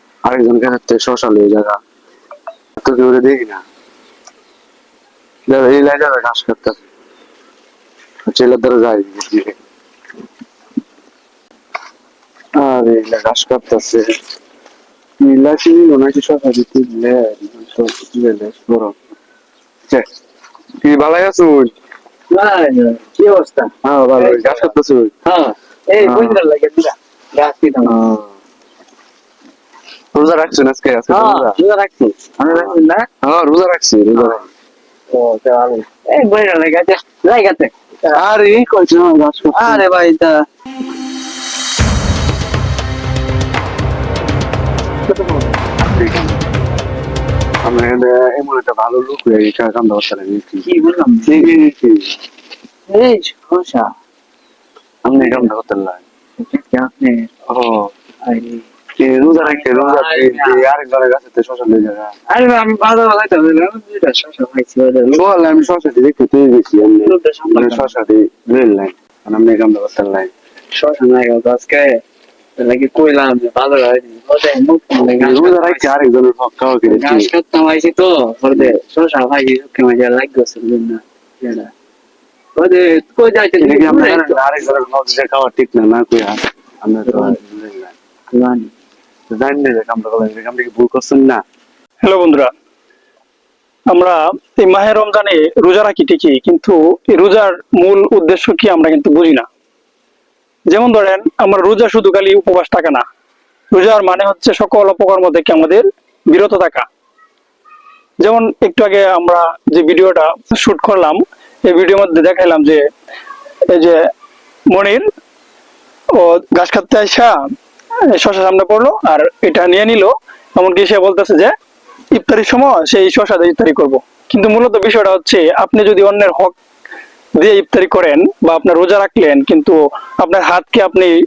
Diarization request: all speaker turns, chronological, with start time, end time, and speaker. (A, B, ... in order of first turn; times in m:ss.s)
0:00.2-0:01.8 A
0:02.8-0:03.6 A
0:05.5-0:06.8 A
0:08.3-0:09.6 A
0:12.6-0:14.1 A
0:15.2-0:19.0 A
0:20.8-0:21.7 A
0:22.3-0:24.7 B
0:23.8-0:25.1 A
0:25.2-0:28.2 B
0:26.0-0:26.4 A
0:27.9-0:28.3 A
0:30.1-0:31.6 A
0:31.1-0:33.1 B
0:32.5-0:34.5 A
0:34.2-0:34.4 B
0:35.1-0:38.2 B
0:38.1-0:39.9 A
0:39.5-0:40.4 B
0:45.1-0:45.6 B
0:45.8-0:46.5 A
0:47.6-0:50.7 A
0:50.6-0:51.5 B
0:51.3-0:52.2 A
0:52.9-0:53.9 B
0:55.0-0:56.0 A
0:55.2-0:55.5 B
0:56.4-0:57.3 B
0:57.5-0:57.9 A
0:58.2-0:58.7 B
0:59.0-1:02.1 A
0:59.4-1:00.6 B
1:02.3-1:05.2 B
1:05.1-1:10.3 A
1:07.0-1:07.9 B
1:10.7-1:12.0 B
1:12.6-1:16.0 B
1:15.1-1:17.3 A
1:16.9-1:21.7 B
1:22.6-1:24.4 B
1:23.6-1:27.9 A
1:27.1-1:27.4 B
1:28.3-1:28.7 B
1:29.3-1:31.4 A
1:32.0-1:32.5 C
1:33.9-1:39.5 C
1:40.7-1:43.0 C
1:43.7-1:46.9 C
1:48.2-1:52.8 C
1:53.7-1:54.0 C
1:54.7-1:55.1 C
1:56.1-1:57.3 C
1:58.1-2:01.5 C
2:02.1-2:06.6 C
2:07.4-2:11.1 C